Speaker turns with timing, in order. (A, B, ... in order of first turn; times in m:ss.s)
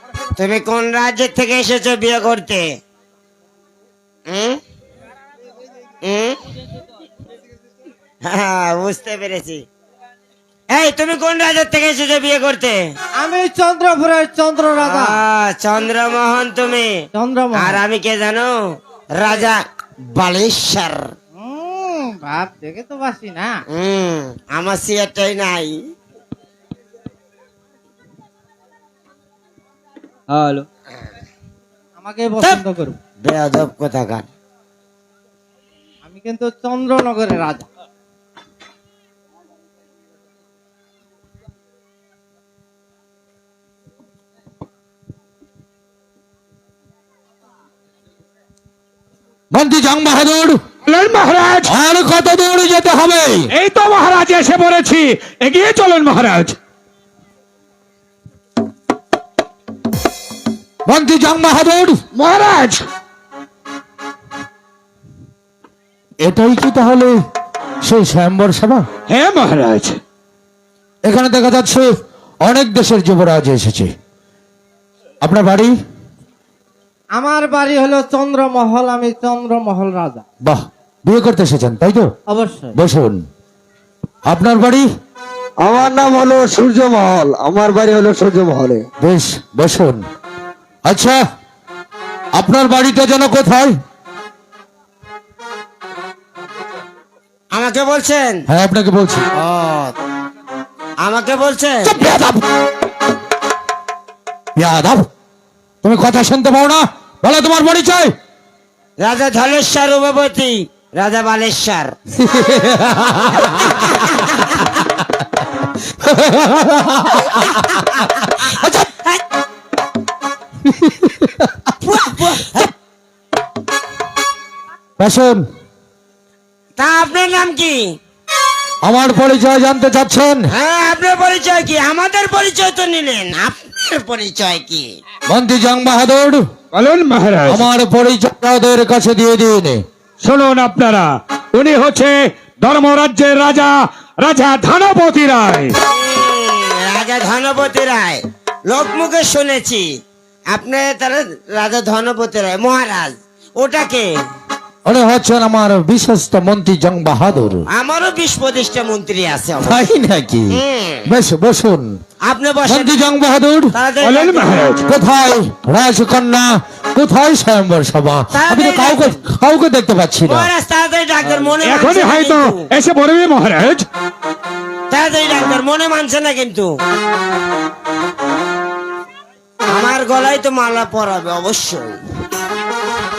0:00.4-0:02.8 A
0:04.3-0:04.6 A
0:06.0-0:06.4 A
0:08.3-0:09.6 A
0:10.7-0:12.8 A
0:13.2-0:15.2 B
0:14.8-0:17.0 A
0:17.1-0:17.8 B
0:17.6-0:18.5 A
0:19.1-0:19.6 A
0:20.1-0:21.1 A
0:21.4-0:23.6 B
0:23.7-0:25.8 A
0:30.3-0:30.6 C
0:32.0-0:33.0 B
0:33.2-0:34.2 A
0:36.0-0:37.7 B
0:49.5-0:50.6 D
0:50.8-0:51.7 C
0:51.6-0:53.5 D
0:53.5-0:56.6 C
1:00.8-1:02.0 D
1:02.1-1:02.8 C
1:06.2-1:07.2 D
1:07.8-1:08.8 D
1:09.1-1:10.0 C
1:11.0-1:11.9 D
1:12.4-1:13.9 D
1:15.2-1:15.7 D
1:17.1-1:20.2 B
1:20.4-1:22.1 D
1:22.3-1:22.7 B
1:22.7-1:23.2 D
1:24.2-1:24.8 D
1:25.6-1:28.9 E
1:29.0-1:30.0 D
1:30.8-1:31.2 D
1:32.3-1:33.7 D
1:37.5-1:38.4 A
1:38.5-1:39.2 D
1:39.4-1:39.9 A
1:41.0-1:41.9 A
1:41.8-1:42.4 D
1:44.6-1:45.1 D
1:45.8-1:48.1 D
1:49.0-1:51.9 A
1:52.2-1:54.4 D
1:56.0-1:57.7 D
1:57.3-1:58.5 A
2:00.6-2:01.5 D
2:01.8-2:02.7 A
2:05.0-2:05.4 D
2:06.8-2:08.0 A
2:08.8-2:10.5 D
2:10.5-2:14.9 A
2:15.3-2:16.4 D
2:16.7-2:17.6 C
2:17.4-2:19.8 D
2:20.2-2:25.7 C
2:25.9-2:29.8 A
2:30.5-2:34.1 A
2:34.8-2:37.6 D
2:37.7-2:39.8 A
2:39.6-2:42.0 D
2:40.5-2:41.1 A
2:42.2-2:43.0 A
2:42.6-2:43.7 D
2:43.7-2:44.6 A
2:44.0-2:44.8 C
2:44.8-2:50.5 D
2:48.3-2:49.2 A
2:50.2-2:52.7 A
2:51.3-2:53.8 C
2:54.9-2:56.7 A
2:59.7-3:02.0 A